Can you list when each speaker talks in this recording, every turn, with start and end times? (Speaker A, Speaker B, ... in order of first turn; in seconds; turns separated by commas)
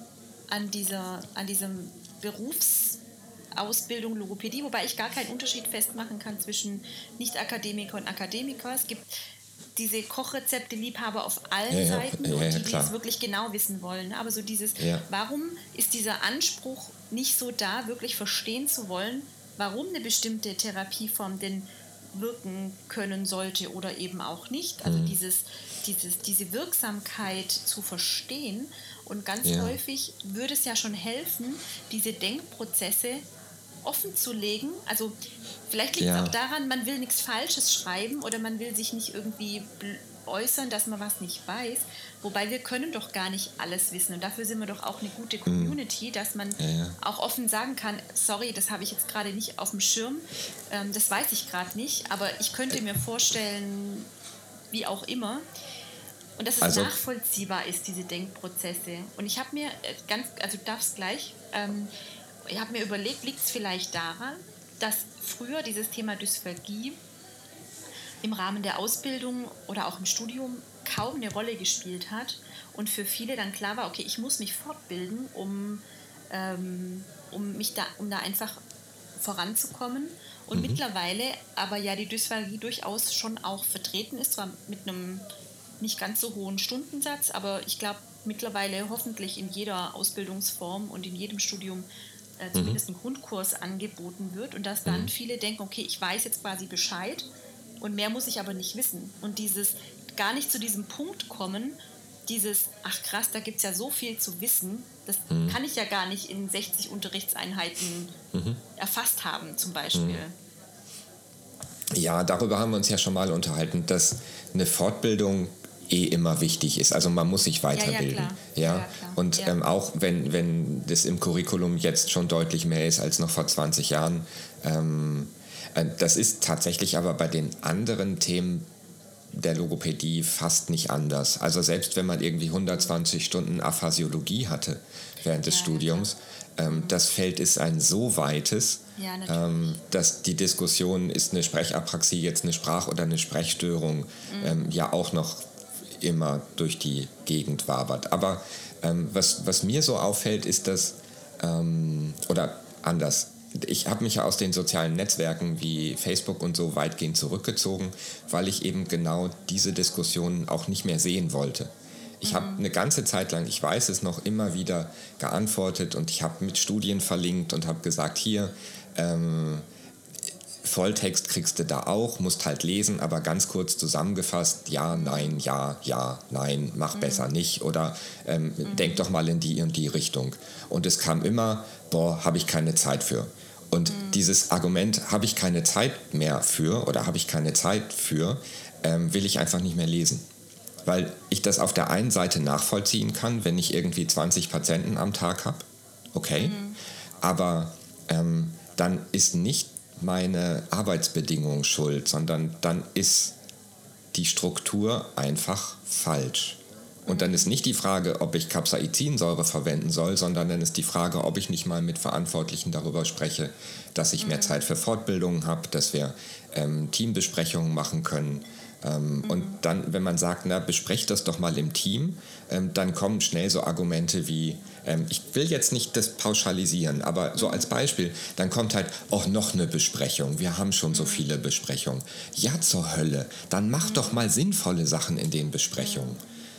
Speaker A: 0.5-3.0, Speaker A: 3.6-9.1, Speaker A: 9.8-33.2, Speaker B: 11.7-12.9, Speaker B: 14.8-15.1, Speaker B: 24.8-25.2, Speaker B: 29.4-29.8, Speaker A: 33.9-35.1, Speaker A: 35.7-54.1, Speaker B: 36.0-36.3, Speaker B: 45.5-45.8, Speaker B: 46.6-47.0, Speaker A: 54.7-55.5, Speaker A: 56.4-61.9, Speaker B: 56.6-57.0, Speaker A: 62.5-67.0, Speaker A: 68.2-78.6, Speaker A: 79.2-85.2, Speaker B: 80.5-80.8, Speaker A: 85.8-91.9, Speaker A: 92.4-97.3, Speaker B: 92.5-92.8, Speaker A: 97.8-108.1, Speaker B: 105.3-105.6, Speaker B: 108.3-108.6, Speaker A: 108.8-110.3, Speaker B: 109.9-110.2, Speaker B: 111.9-128.7, Speaker A: 117.8-119.6, Speaker B: 129.3-145.4, Speaker A: 135.4-136.1, Speaker A: 136.7-137.0, Speaker A: 139.0-139.7, Speaker A: 144.3-144.8, Speaker B: 146.0-161.7, Speaker B: 162.2-169.7, Speaker A: 162.2-162.7, Speaker B: 170.6-190.3, Speaker A: 174.9-175.4, Speaker A: 176.9-177.3, Speaker A: 178.6-179.1, Speaker A: 183.9-184.3, Speaker B: 190.8-196.6, Speaker A: 196.4-196.8, Speaker B: 197.2-203.3, Speaker B: 204.1-236.2, Speaker A: 207.1-207.5, Speaker A: 214.2-214.6, Speaker A: 219.2-219.6, Speaker A: 227.4-227.7, Speaker A: 230.9-231.3, Speaker A: 233.8-234.2, Speaker A: 235.8-236.2